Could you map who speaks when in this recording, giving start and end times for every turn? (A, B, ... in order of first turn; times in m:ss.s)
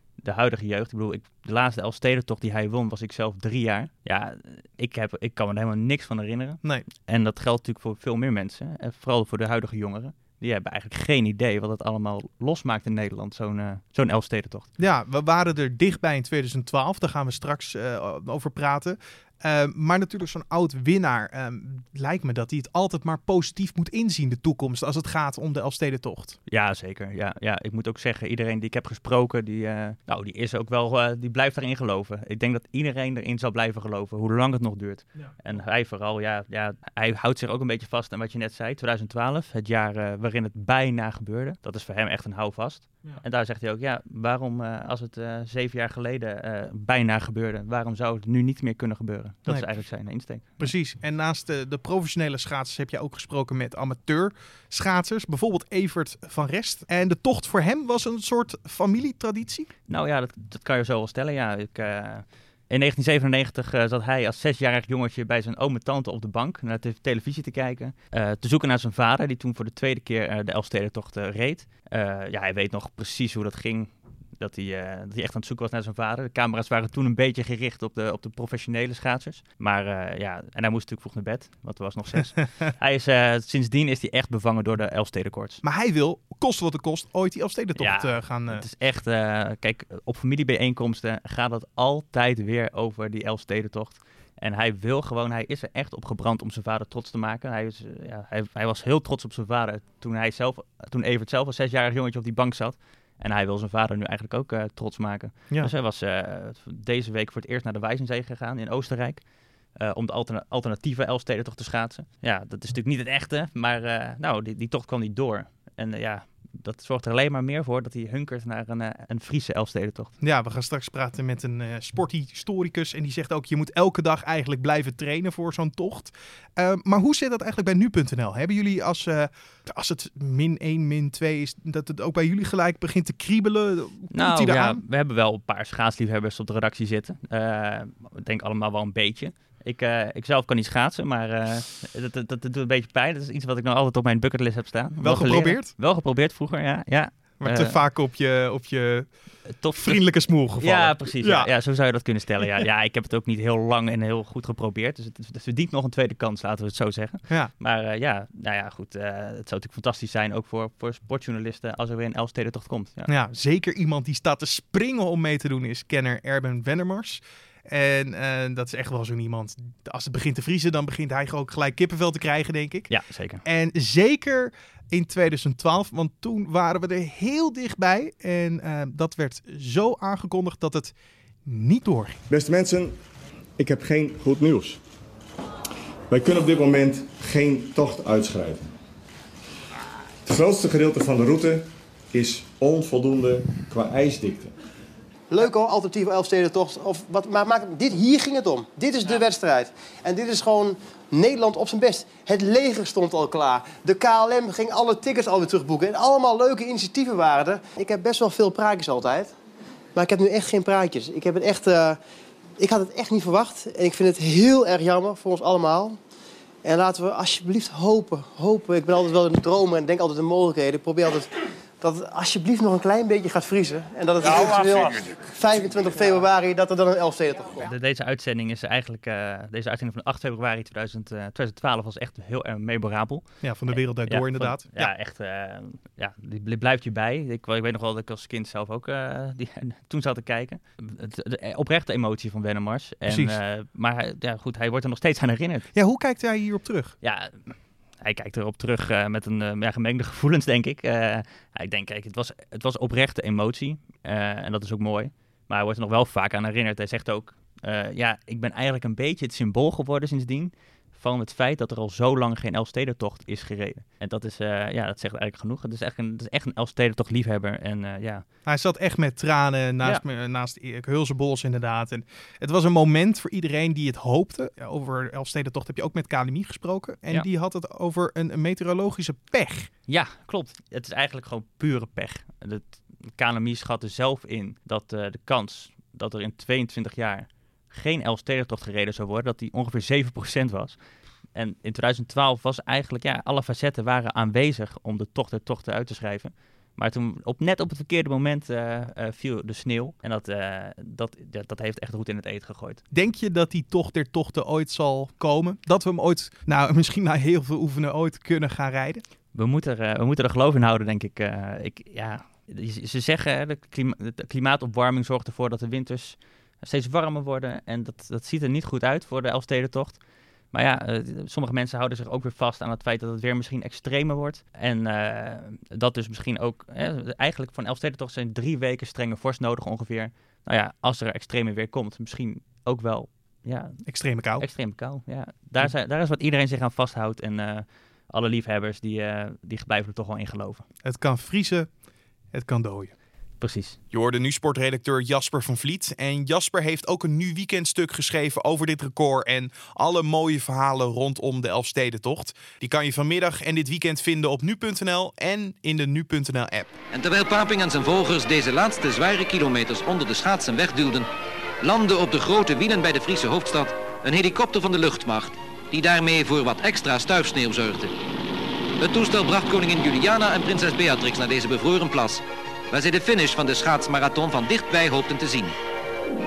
0:00.2-0:14.7 A
0:14.8-0:26.4 B
0:26.5-0:50.7 A
0:50.6-0:59.7 B
0:59.9-1:25.6 A
1:25.6-1:28.6 B
1:27.8-1:49.2 A
1:49.8-2:00.1 A
2:00.2-2:14.8 B
2:14.1-2:27.8 A
2:25.0-2:25.7 B
2:27.4-2:29.1 B
2:29.6-2:43.1 A
2:29.8-2:31.5 B
2:43.1-2:52.9 B
2:52.9-2:53.4 A
2:53.4-3:00.9 B
3:01.5-3:02.2 B
3:02.3-3:03.0 C
3:03.6-3:04.8 C
3:06.1-3:08.7 C
3:10.2-3:14.5 C
3:15.3-3:29.3 D
3:30.0-3:32.0 D
3:32.6-3:36.0 D
3:36.6-3:41.3 D
3:41.8-3:47.7 D
3:47.6-4:05.7 A
3:53.4-3:54.9 B
4:03.1-4:03.4 B
4:05.7-4:07.0 B
4:07.0-4:28.2 A
4:28.5-4:39.7 B
4:39.9-4:50.8 A
4:51.3-5:02.8 A
5:02.9-5:09.0 B
5:09.3-5:20.0 A
5:20.5-5:33.9 A
5:33.9-5:34.4 B
5:34.4-5:40.6 A
5:40.8-5:41.7 B
5:42.3-5:42.9 B
5:43.4-5:43.8 A
5:43.9-5:56.7 B
5:56.9-6:01.1 E
6:01.6-6:07.9 E
6:08.8-6:15.6 E